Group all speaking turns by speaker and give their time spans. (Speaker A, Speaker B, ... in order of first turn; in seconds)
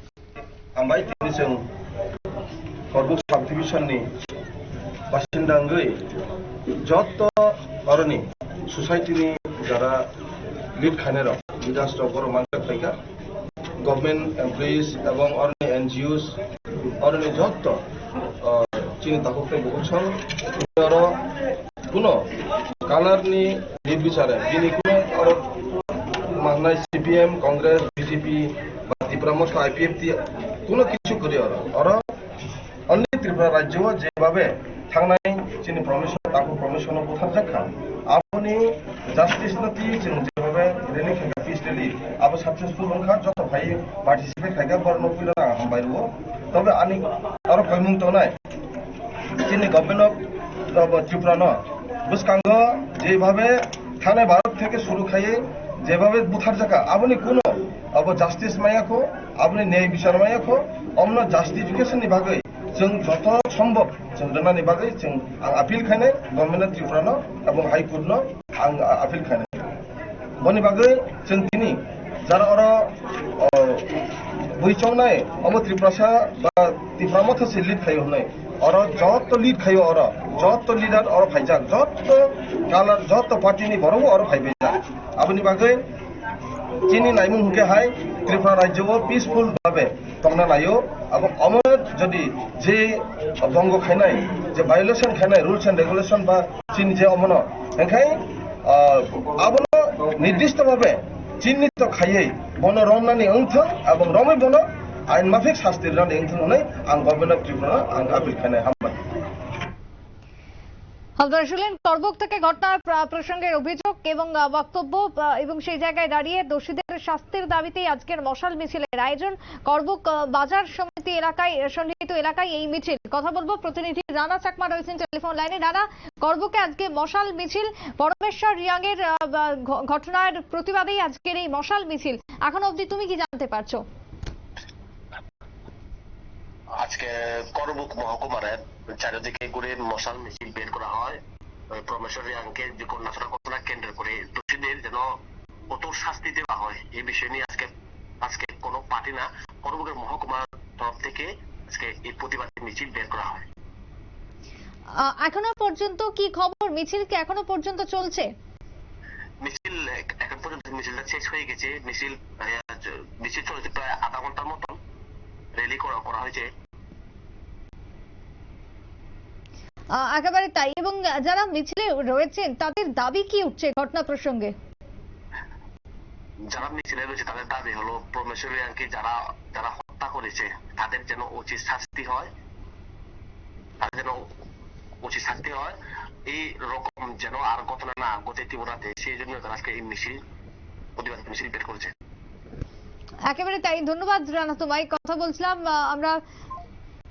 Speaker A: 0.8-1.6, 2.9-4.0, 5.1-6.0, 6.9-10.1, 10.8-12.9, 13.8-16.4, 17.0-17.8, 18.4-21.2, 21.9-22.3, 22.9-25.5, 26.3-32.0, 32.9-48.3, 49.4-69.7, 70.4-74.0, 74.5-85.8, 86.8-109.2
Speaker B: 111.2-133.8, 155.0-158.2, 170.0-174.5, 193.3-196.2
Speaker C: 136.8-141.2, 141.8-145.1, 145.7-147.7, 148.2-153.4, 159.4-164.8, 165.6-166.5, 176.5-182.3, 183.8-184.2, 185.0-185.8, 186.3-190.2, 191.0-191.9